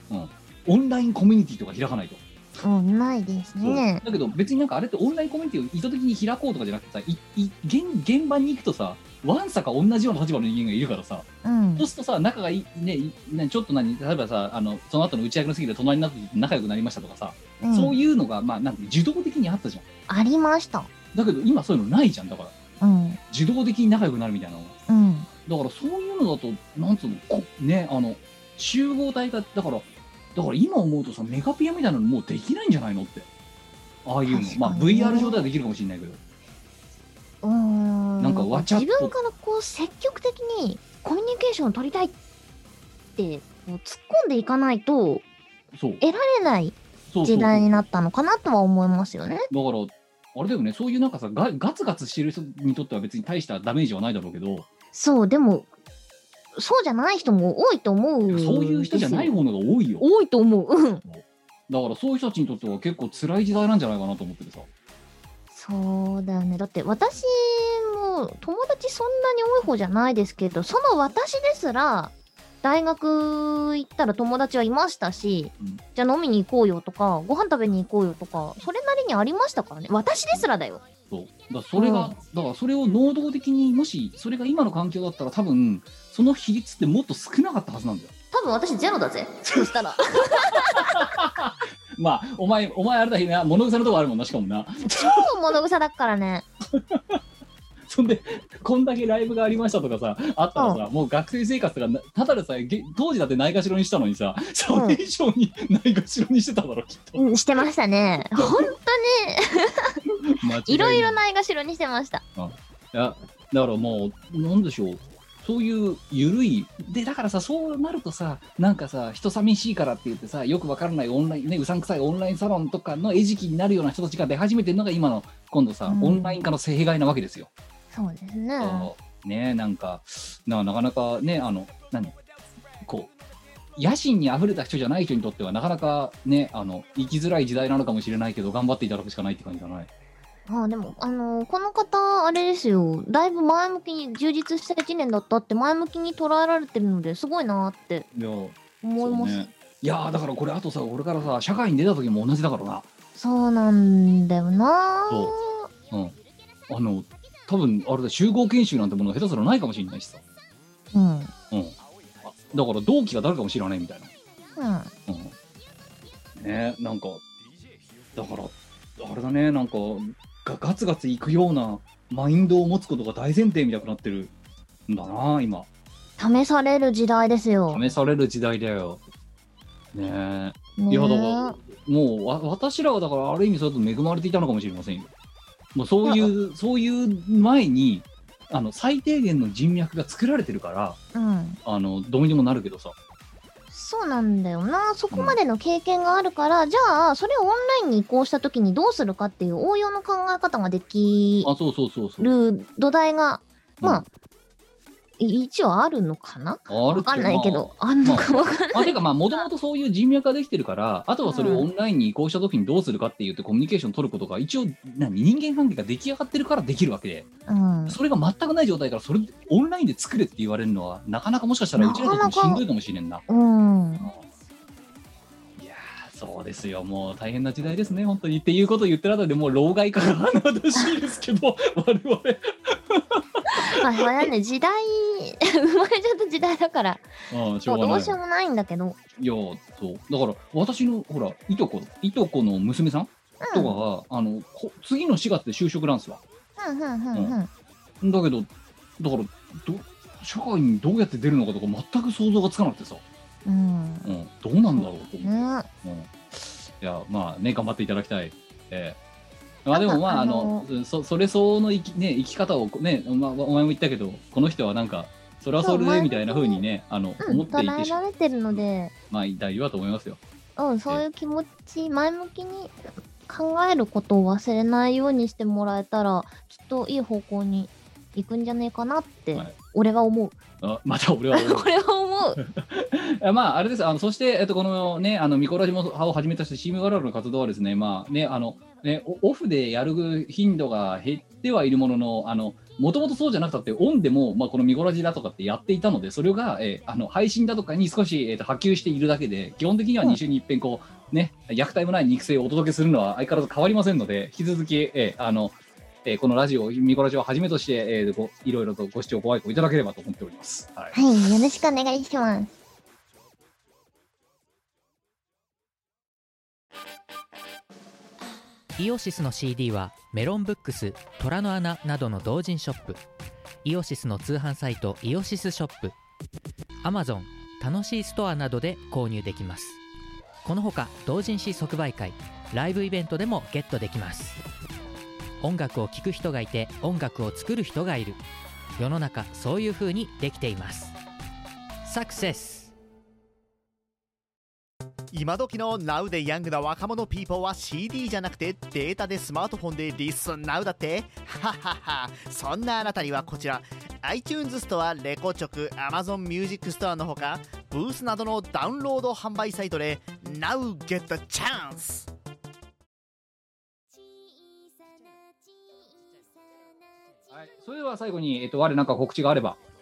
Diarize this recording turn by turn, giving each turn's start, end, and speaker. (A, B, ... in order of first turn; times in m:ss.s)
0:00.1-0:02.2 A
0:02.6-0:04.0 B
0:03.6-0:19.8 A
0:11.4-0:11.9 B
0:17.6-0:18.0 B
0:20.1-0:20.9 B
0:21.1-0:22.5 A
0:22.8-0:23.2 B
0:23.3-0:24.8 A
0:24.9-0:25.3 B
0:25.5-0:33.3 A
0:34.0-0:36.2 A
0:34.3-0:35.4 B
0:37.4-0:42.1 B
0:38.2-0:39.1 A
0:43.2-0:45.2 B
0:45.7-0:46.0 A
0:46.0-0:49.5 B
0:47.1-0:47.8 A
0:49.5-0:54.7 A
0:54.9-0:55.7 B
0:56.6-0:59.3 B
0:58.3-1:00.0 A
1:00.0-1:01.0 B
1:01.1-1:04.7 A
1:05.5-1:20.8 B
1:21.1-1:28.1 A
1:21.8-1:22.2 B
1:28.3-1:31.1 B
1:29.5-1:29.7 A
1:30.5-1:35.3 A
1:34.9-1:36.5 B
1:36.8-1:37.2 A
1:37.9-1:47.3 A
1:40.6-1:40.8 B
1:44.7-1:45.0 B
1:47.2-1:50.0 B
1:48.4-1:48.6 A
1:50.2-1:51.2 A
1:50.6-1:52.2 B
1:52.4-2:07.5 A
2:05.9-2:06.4 B
2:07.9-2:08.9 B
2:08.6-2:12.2 A
2:12.8-2:13.1 A
2:13.8-2:19.9 A
2:20.5-2:28.1 B
2:28.2-2:32.9 A
2:28.8-2:29.5 B
2:33.2-2:35.7 B
2:35.1-2:35.3 A
2:35.9-2:36.2 A
2:36.7-2:40.2 A
2:40.9-2:41.3 B
2:41.5-2:44.1 A
2:44.6-2:44.9 B
2:45.1-2:45.4 A
2:46.4-2:47.2 A
2:48.2-2:54.3 A
2:54.9-2:55.7 A
2:56.2-2:57.8 B
2:57.7-2:59.0 A
2:59.9-3:05.1 A
3:00.8-3:01.6 B
3:05.8-3:11.0 A
3:06.0-3:06.3 B
3:11.1-3:11.6 B
3:11.6-3:13.0 A
3:13.7-3:21.5 B
3:15.1-3:15.4 A
3:21.4-3:22.3 A
3:22.2-3:24.1 B
3:25.2-3:29.4 B
3:26.7-3:37.3 A
3:31.3-3:31.7 B
3:37.5-3:38.0 B
3:37.9-3:43.2 A
3:41.8-3:42.6 B
3:43.3-3:44.1 B
3:45.6-3:53.9 A
3:53.5-3:57.1 B
3:57.3-3:58.2 A
3:57.7-3:59.0 B
3:59.2-4:06.2 A
4:03.4-4:03.8 B
4:06.6-4:07.5 B
4:08.0-4:13.0 A
4:13.4-4:14.1 B
4:14.0-4:19.0 A
4:14.7-4:15.7 B
4:19.6-4:30.2 A
4:19.7-4:20.7 B
4:25.6-4:26.6 B
4:27.2-4:28.9 B
4:30.6-4:32.7 B
4:33.3-4:40.4 B
4:40.6-4:41.7 A
4:41.3-4:42.4 B
4:42.4-5:11.0 A
5:10.9-5:12.5 B
5:18.8-5:23.0 C
5:23.6-5:26.0 C
5:26.8-5:29.8 C
5:30.4-5:34.4 C
5:35.4-5:38.2 C
5:38.8-5:41.0 C
5:41.8-5:42.7 C
5:45.1-6:02.1 D
6:07.3-6:09.6 A